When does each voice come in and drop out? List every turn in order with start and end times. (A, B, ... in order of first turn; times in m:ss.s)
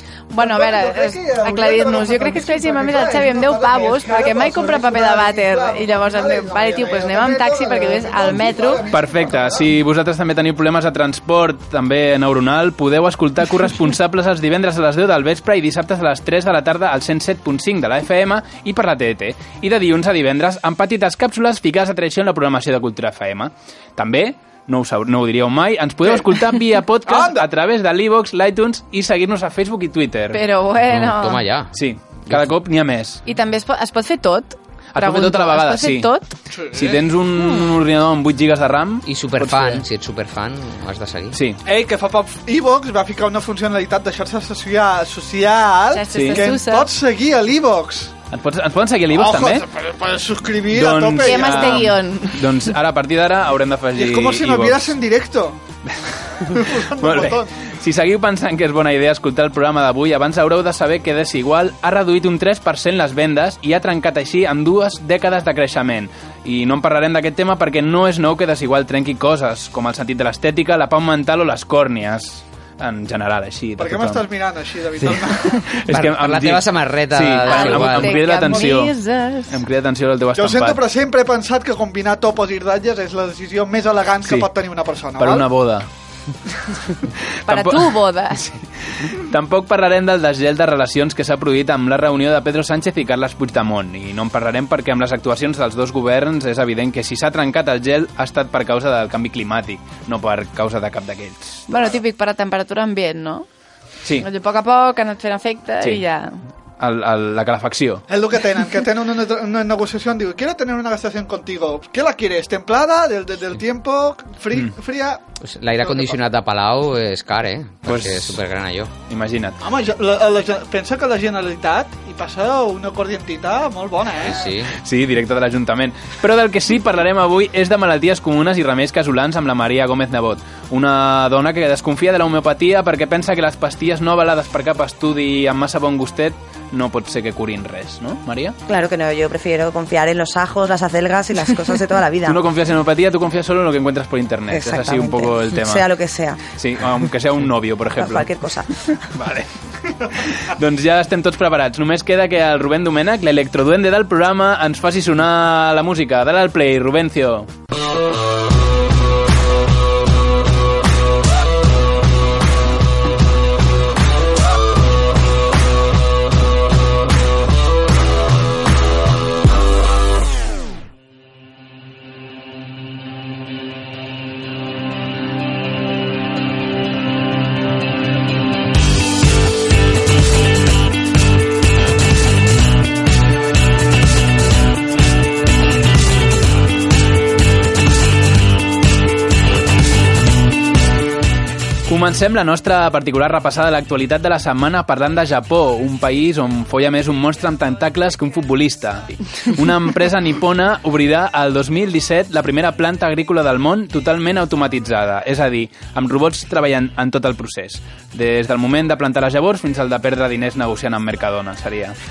0:00.3-0:08.9 A
0:00.4-0:09.7 B
0:08.9-0:30.4 C
0:27.1-0:27.5 B
0:30.3-0:31.4 A
0:31.0-0:32.5 D
0:31.7-0:33.2 C
0:33.2-0:36.3 A
0:34.9-0:36.1 C
0:36.5-0:37.0 B
0:36.7-0:39.8 C
0:37.4-0:37.7 A
0:39.0-0:41.4 D
0:41.3-0:41.6 C
0:41.6-0:48.1 B
0:45.9-0:46.9 A
0:46.1-0:46.5 C
0:48.3-0:49.6 C
0:49.1-0:51.7 B
0:50.7-0:54.9 C
0:51.2-0:52.6 A
0:53.9-0:55.6 B
0:56.1-1:14.2 C
0:56.5-0:57.5 B
1:13.8-1:15.6 B
1:15.0-1:20.8 C
1:15.9-1:18.5 D
1:17.4-1:19.6 A
1:20.4-1:25.5 B
1:25.2-1:25.9 C
1:27.4-1:41.7 C
1:27.5-1:28.4 A
1:41.7-1:43.5 A
1:44.2-1:46.4 A
1:46.8-1:48.0 C
1:48.1-1:55.2 B
1:55.4-1:58.9 D
1:55.8-1:56.2 B
1:57.8-1:58.4 C
1:59.1-1:59.6 C
1:59.6-2:04.5 B
2:04.2-2:04.7 D
2:04.7-2:18.6 C
2:18.7-2:22.4 E
2:22.3-2:25.8 C
2:24.5-2:26.4 E
2:26.6-2:28.3 C
2:28.0-2:28.7 E
2:29.1-2:29.5 C
2:30.0-2:37.5 C
3:11.9-3:32.0 C